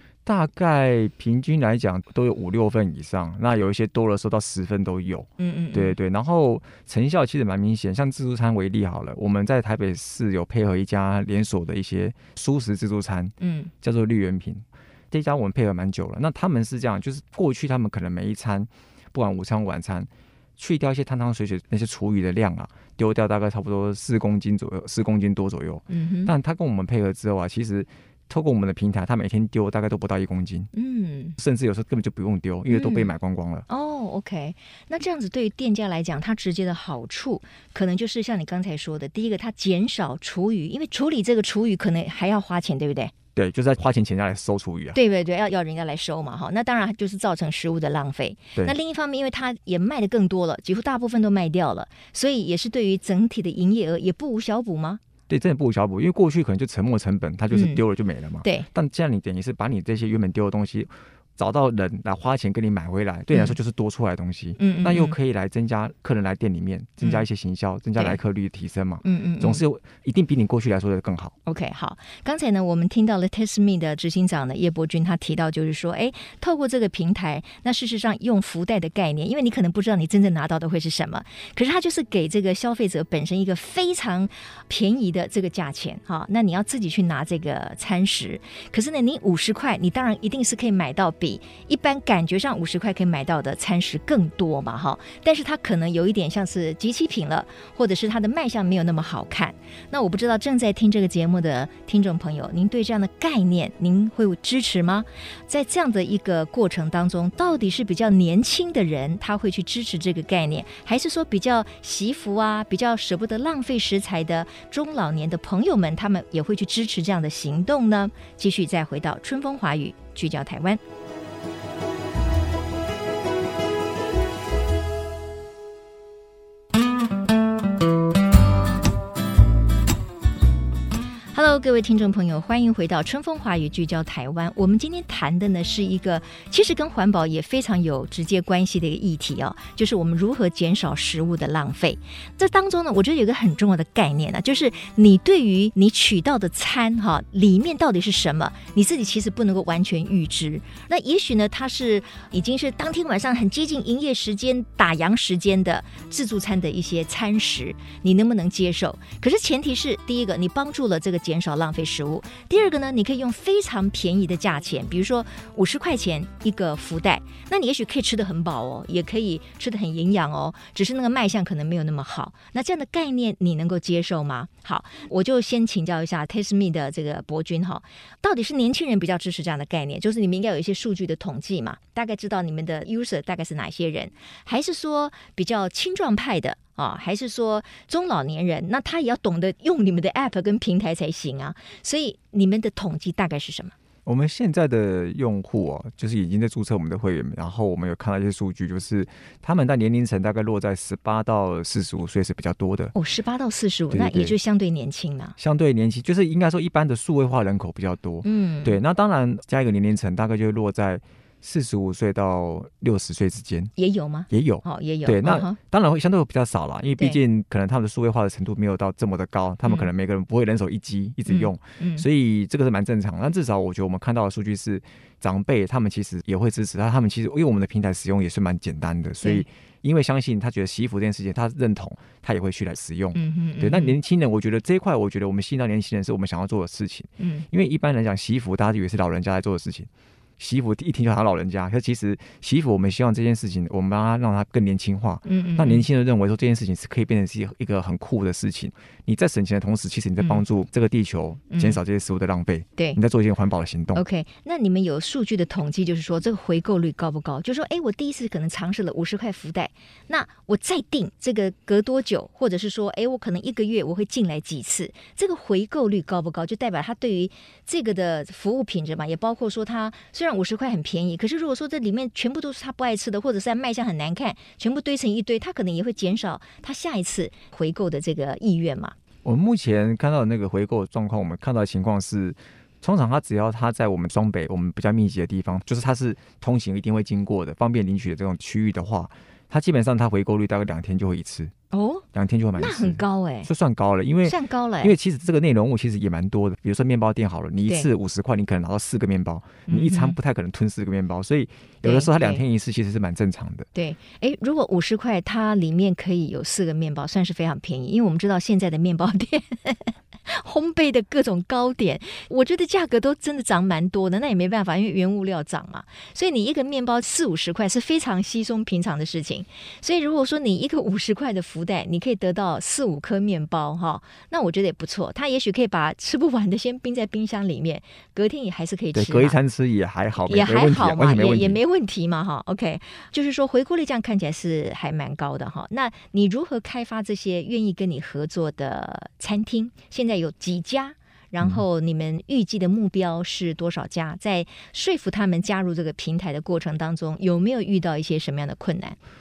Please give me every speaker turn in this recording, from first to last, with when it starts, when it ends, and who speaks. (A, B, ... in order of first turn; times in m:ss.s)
0:00.2-0:30.7 A
0:05.4-0:06.0 B
0:13.4-0:13.7 B
0:25.9-0:26.3 B
0:30.7-0:31.4 B
0:31.4-0:33.6 A
0:32.7-0:33.1 B
0:33.7-0:43.1 B
0:43.3-0:45.0 A
0:44.9-0:55.0 B
0:55.3-1:11.3 A
0:57.5-0:57.8 B
1:04.6-1:05.1 B
1:09.0-1:09.6 B
1:11.4-2:00.8 B
2:11.3-3:13.7 B
3:14.0-3:22.9 A
3:22.9-3:25.4 B
3:23.9-3:24.3 A
3:25.4-3:33.7 A
3:28.2-3:28.8 B
3:33.8-3:35.6 B
3:34.3-4:14.0 A
3:41.2-3:42.0 B
3:53.1-3:54.0 B
3:57.2-3:57.4 B
4:05.2-4:05.8 B
4:11.5-4:11.8 B
4:13.9-4:38.9 B
4:39.2-4:51.5 A
4:51.7-4:52.0 B
4:52.1-5:03.7 A
4:52.6-4:53.5 B
4:54.2-4:54.9 B
4:59.7-5:00.2 B
5:01.8-5:02.4 B
5:03.7-5:29.4 B
5:28.9-5:31.6 A
5:30.3-5:49.0 B